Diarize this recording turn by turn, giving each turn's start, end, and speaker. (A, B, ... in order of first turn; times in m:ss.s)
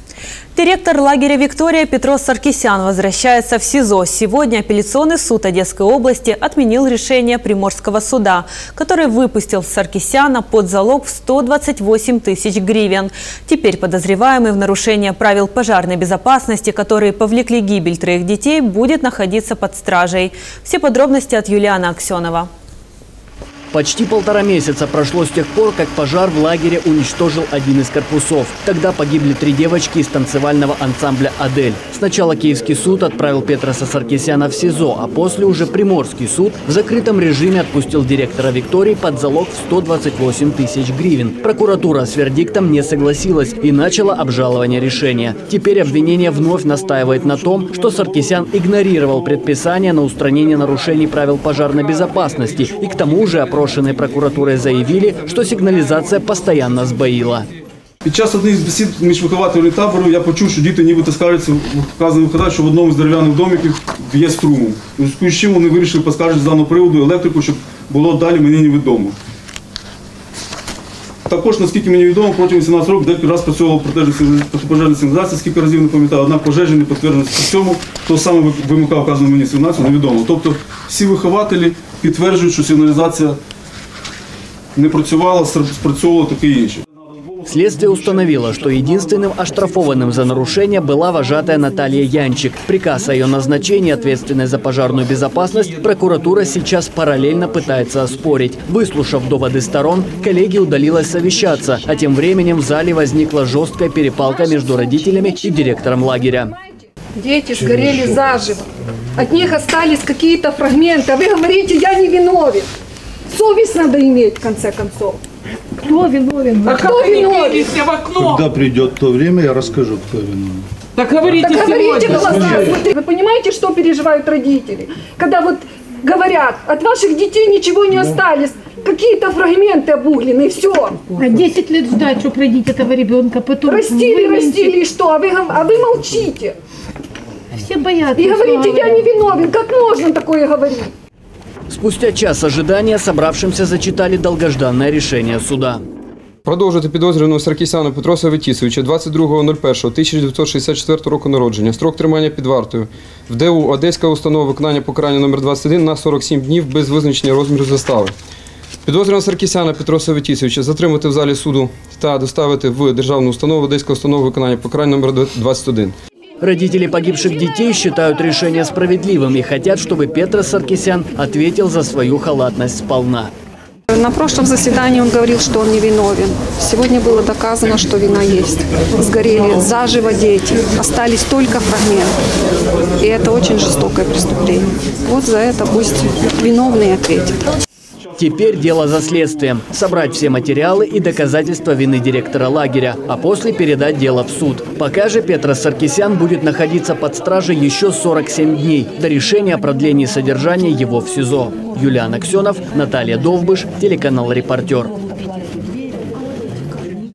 0:00.5-0:22.5 A
0:23.7-0:57.5 B
0:58.0-1:09.2 C
1:11.3-1:23.4 C
1:24.8-1:26.8 C
1:27.4-1:46.5 B
1:47.2-1:52.7 D
1:53.3-1:55.2 D
1:56.3-1:58.4 D
1:58.4-2:00.4 E
2:01.2-2:11.1 D
2:11.2-2:14.7 F
2:13.6-2:16.5 D
2:17.7-2:19.0 F
2:18.1-2:20.9 D
2:21.7-2:25.8 B
2:26.4-2:38.1 G
2:38.8-2:45.9 G
2:46.4-2:53.3 B
2:53.9-3:02.1 D
3:03.0-3:07.4 D
3:08.2-3:25.0 B